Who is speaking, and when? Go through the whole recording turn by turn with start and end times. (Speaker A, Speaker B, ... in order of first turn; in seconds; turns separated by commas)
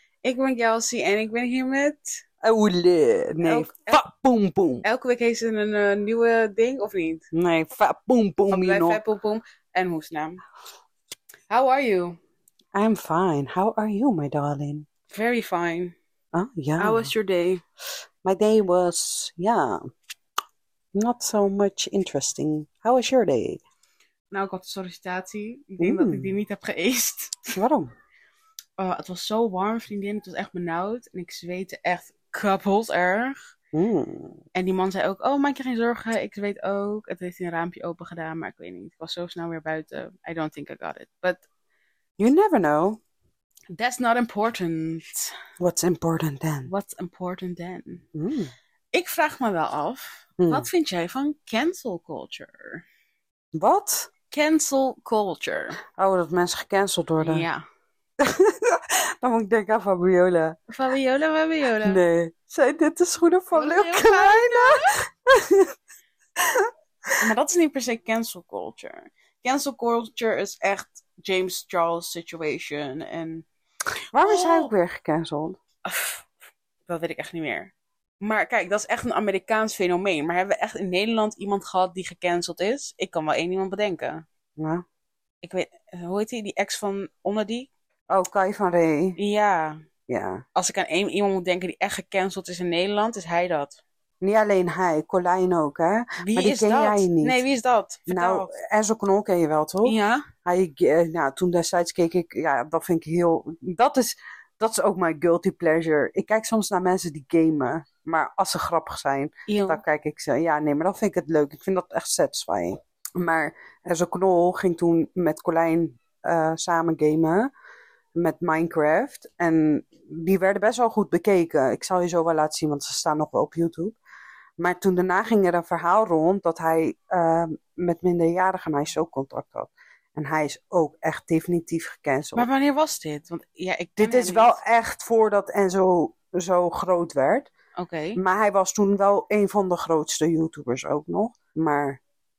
Speaker A: 0.2-2.2, Speaker B: 2.4-4.8, Speaker A: 3.4-4.0, Speaker A: 4.8-7.2, Speaker B: 7.3-9.0, Speaker A: 8.5-10.4, Speaker A: 11.5-12.2, Speaker B: 12.7-14.9, Speaker A: 15.1-16.0, Speaker B: 16.3-17.1, Speaker A: 16.8-17.6, Speaker B: 18.2-19.8, Speaker B: 20.9-23.6, Speaker A: 24.3-27.6, Speaker B: 25.8-26.3, Speaker B: 27.5-27.9, Speaker A: 28.8-33.4, Speaker B: 33.7-34.4, Speaker A: 34.5-41.4, Speaker B: 42.2-43.0, Speaker A: 43.7-45.3, Speaker B: 45.6-46.7, Speaker A: 46.7-48.0, Speaker B: 48.1-48.5, Speaker A: 48.9-52.8, Speaker B: 50.4-50.7, Speaker B: 53.5-54.1, Speaker A: 54.3-55.8, Speaker B: 56.0-57.5, Speaker A: 57.2-57.6, Speaker B: 58.2-60.5, Speaker A: 60.7-62.0, Speaker B: 61.9-65.7, Speaker A: 63.5-65.0, Speaker B: 66.4-67.1, Speaker A: 67.2-73.5, Speaker B: 74.1-75.6, Speaker A: 74.2-74.7, Speaker A: 75.8-76.2, Speaker A: 76.9-84.2, Speaker B: 84.6-84.8, Speaker A: 85.4-87.7, Speaker B: 88.1-89.2, Speaker A: 89.2-89.8, Speaker B: 90.1-90.4, Speaker A: 90.5-93.8, Speaker B: 94.2-97.4, Speaker A: 96.2-98.5, Speaker B: 98.1-117.5, Speaker A: 99.8-100.3, Speaker A: 109.5-109.8, Speaker B: 118.2-124.0, Speaker B: 124.6-132.5, Speaker A: 132.3-134.6, Speaker B: 134.0-137.5, Speaker A: 137.8-138.2, Speaker B: 138.2-142.0